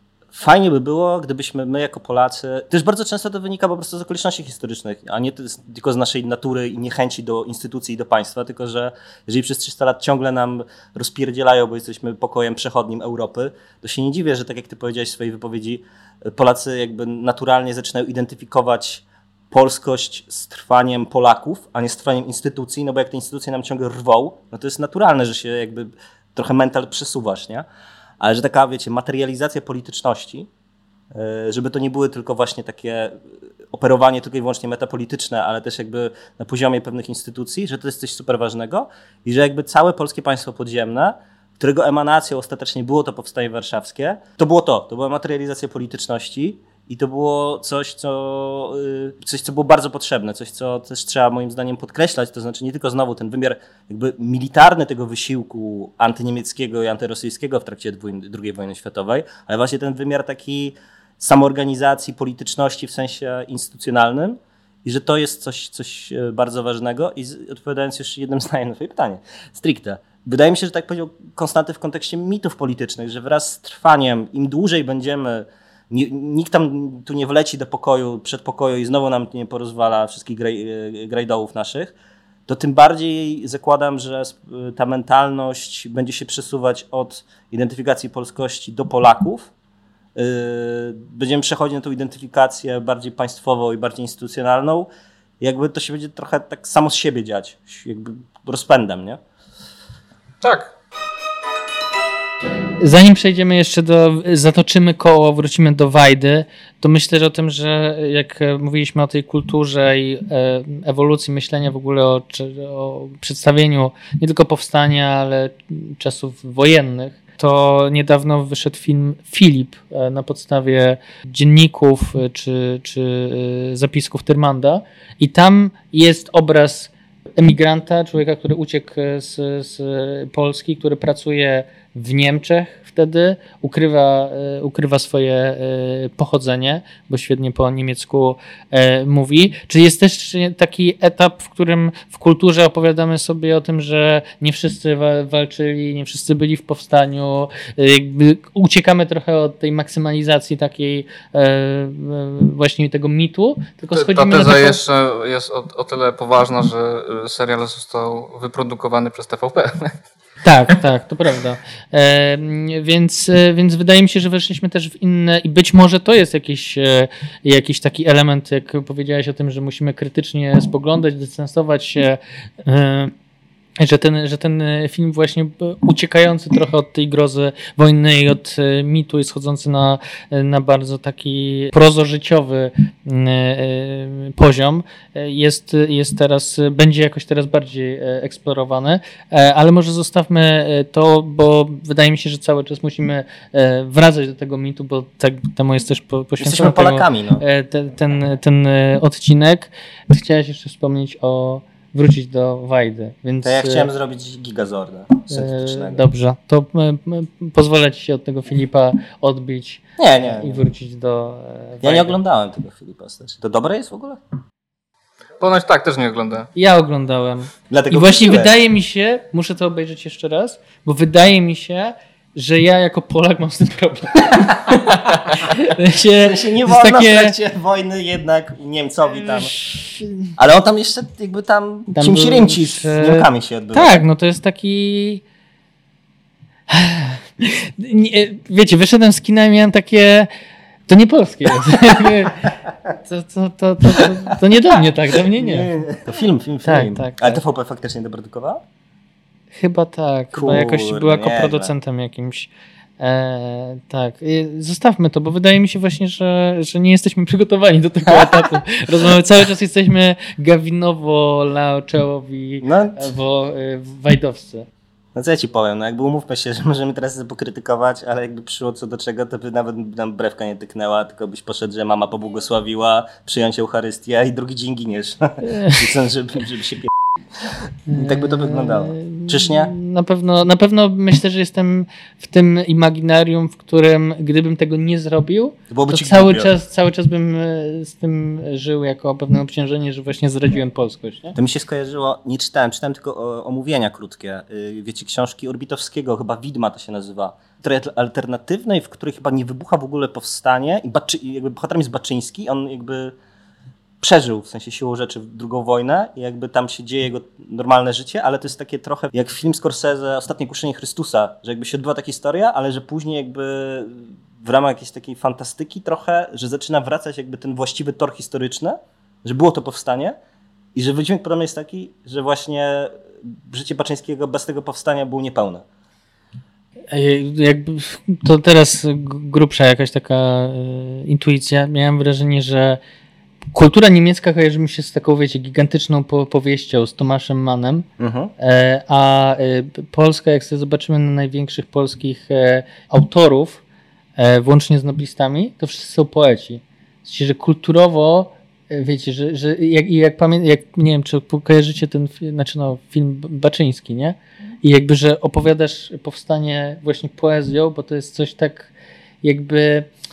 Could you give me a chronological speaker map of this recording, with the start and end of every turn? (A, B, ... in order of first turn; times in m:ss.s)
0:00.3-0:27.6 A
0:28.2-0:30.5 A
0:31.1-0:33.2 A
0:33.7-1:21.9 A
1:22.5-1:29.5 A
1:30.2-1:34.9 A
1:35.4-1:39.2 A
1:40.4-1:40.7 B
1:42.8-2:34.8 C
2:33.9-2:40.0 B
2:40.4-2:53.1 C
2:53.8-3:23.9 C
3:16.4-3:17.4 A
3:23.4-3:26.0 A
3:25.3-3:32.2 C
3:30.0-3:30.6 A
3:31.8-3:34.2 A
3:35.4-3:36.5 B
3:36.6-3:47.3 C
3:37.7-3:38.5 A
3:46.2-3:49.5 A
3:49.6-3:50.3 C
3:50.4-3:54.0 A
3:51.9-3:55.2 C
3:56.7-4:00.3 C
4:00.9-4:02.5 C
4:03.0-4:05.7 C
4:05.3-4:08.6 A
4:06.6-4:07.4 C
4:09.5-4:24.7 C
4:10.3-4:11.7 A
4:18.0-4:18.5 A
4:22.6-4:23.1 A
4:25.1-4:39.7 A
4:35.4-4:35.8 C
4:37.9-4:51.4 C
4:45.7-4:46.5 A
4:51.3-5:03.1 A
5:04.0-5:20.2 A
5:20.7-5:25.6 A
5:26.9-5:32.8 C
5:33.5-5:37.8 C
5:38.0-5:38.3 A
5:38.4-5:43.6 C
5:44.2-5:58.7 C
5:59.2-5:59.9 C